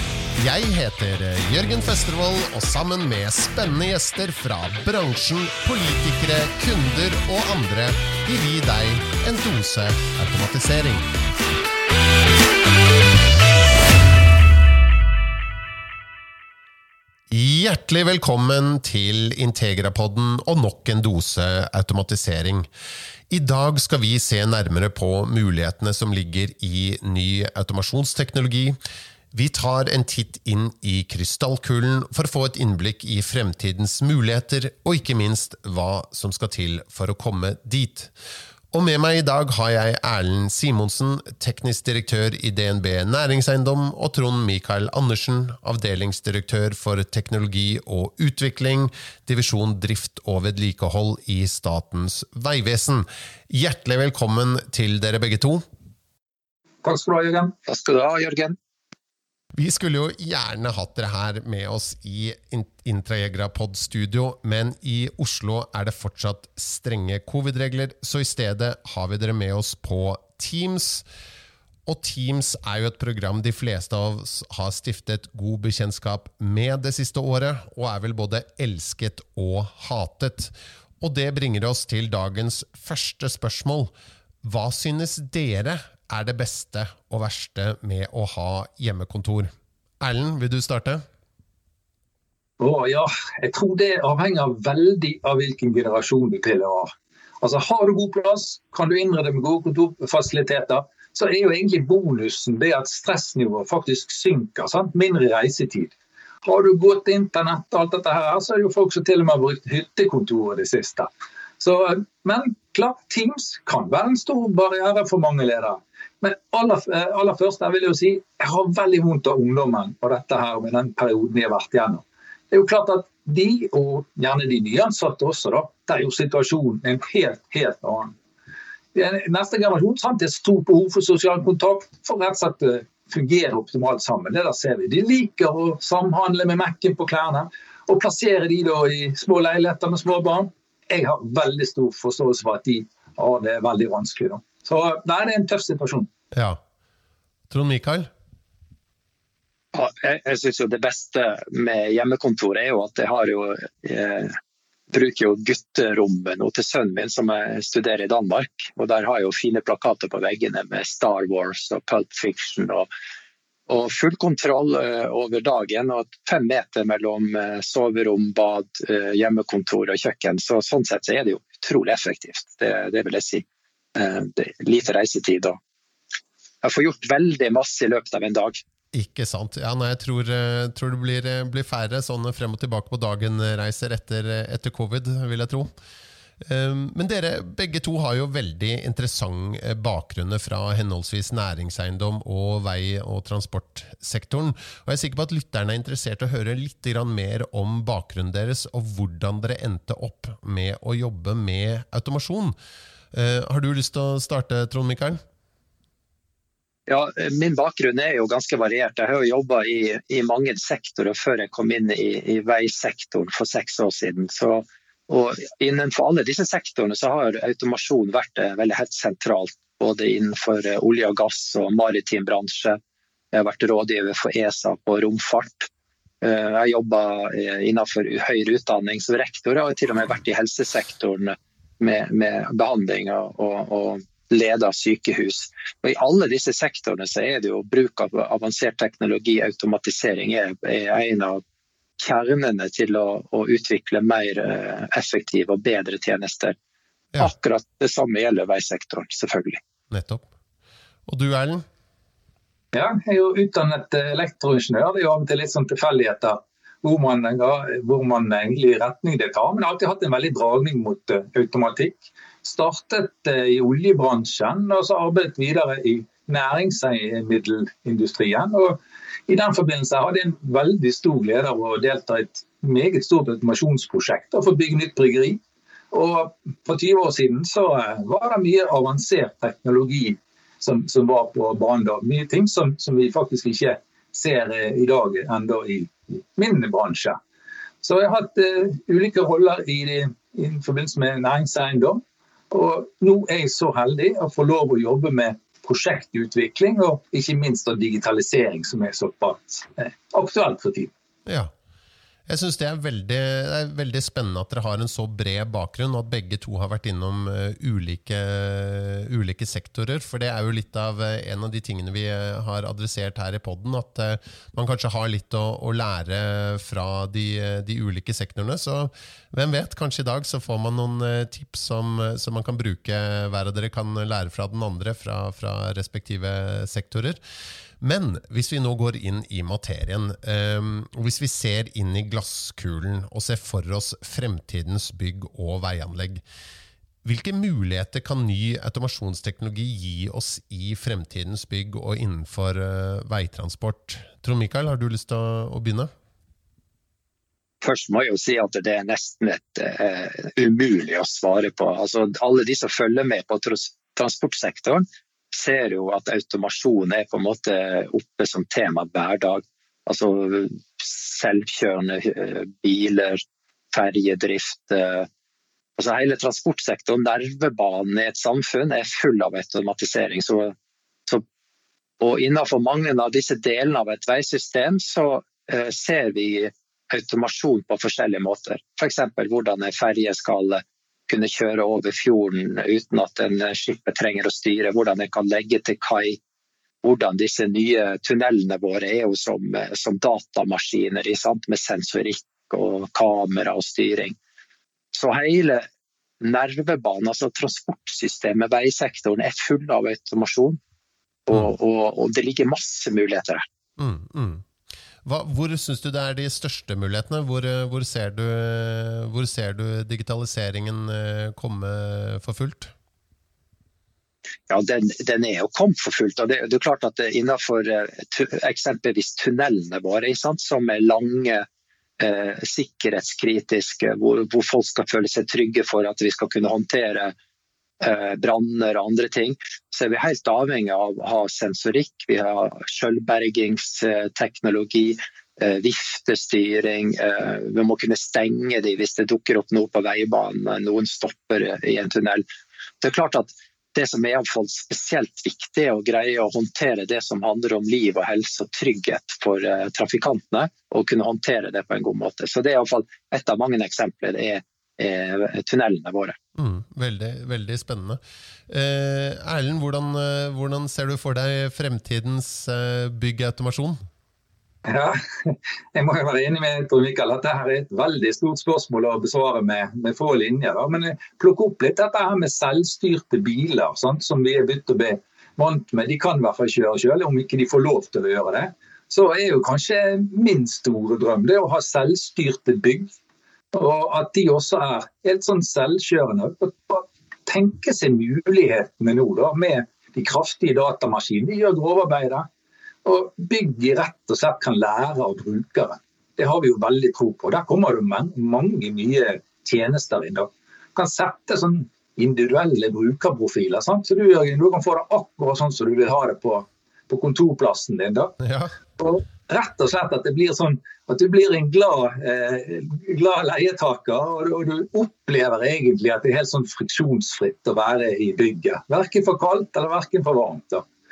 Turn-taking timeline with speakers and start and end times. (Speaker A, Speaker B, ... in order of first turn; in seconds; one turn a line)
Speaker A: 0.4-11.1
Speaker A: 17.3-22.7
Speaker A: 23.3-28.8
Speaker A: 29.3-38.1
Speaker A: 38.7-55.6
Speaker B: 56.8-57.5
Speaker C: 57.7-58.6
Speaker A: 59.5-71.0
Speaker A: 71.9-83.9
Speaker A: 84.4-91.0
Speaker B: 92.6-105.9
Speaker B: 106.5-111.1
Speaker B: 111.6-128.2
Speaker B: 128.9-146.1
Speaker A: 146.3-146.6
Speaker A: 147.5-148.1
Speaker C: 149.7-154.4
Speaker C: 154.9-162.9
Speaker C: 163.7-173.4
Speaker C: 174.0-175.6
Speaker C: 176.6-178.6
Speaker A: 178.9-185.7
Speaker A: 186.4-202.6
Speaker A: 203.1-205.2
Speaker C: 206.9-222.8
Speaker C: 223.3-225.7
Speaker C: 226.2-241.4
Speaker C: 242.0-246.6
Speaker C: 247.2-249.6
Speaker A: 249.9-250.2
Speaker A: 251.1-251.7
Speaker B: 252.7-275.4
Speaker B: 275.9-287.2
Speaker B: 287.8-300.9
Speaker A: 301.3-301.5
Speaker A: 302.3-327.2
Speaker A: 327.8-336.2
Speaker A: 337.1-345.9
Speaker C: 347.6-365.1
Speaker C: 365.8-370.6
Speaker C: 372.0-386.2
Speaker C: 386.8-394.2
Speaker C: 394.9-395.7
Speaker C: 396.2-400.6
Speaker C: 401.3-403.5
Speaker A: 403.8-404.5
Speaker A: 405.0-412.7
Speaker C: 414.5-421.4
Speaker C: 422.0-427.1
Speaker C: 427.8-442.2
Speaker C: 442.8-456.2
Speaker A: 456.4-463.8
Speaker B: 464.6-482.9
Speaker B: 483.5-492.3
Speaker B: 492.9-508.2
Speaker A: 508.2-508.5
Speaker B: 508.8-520.6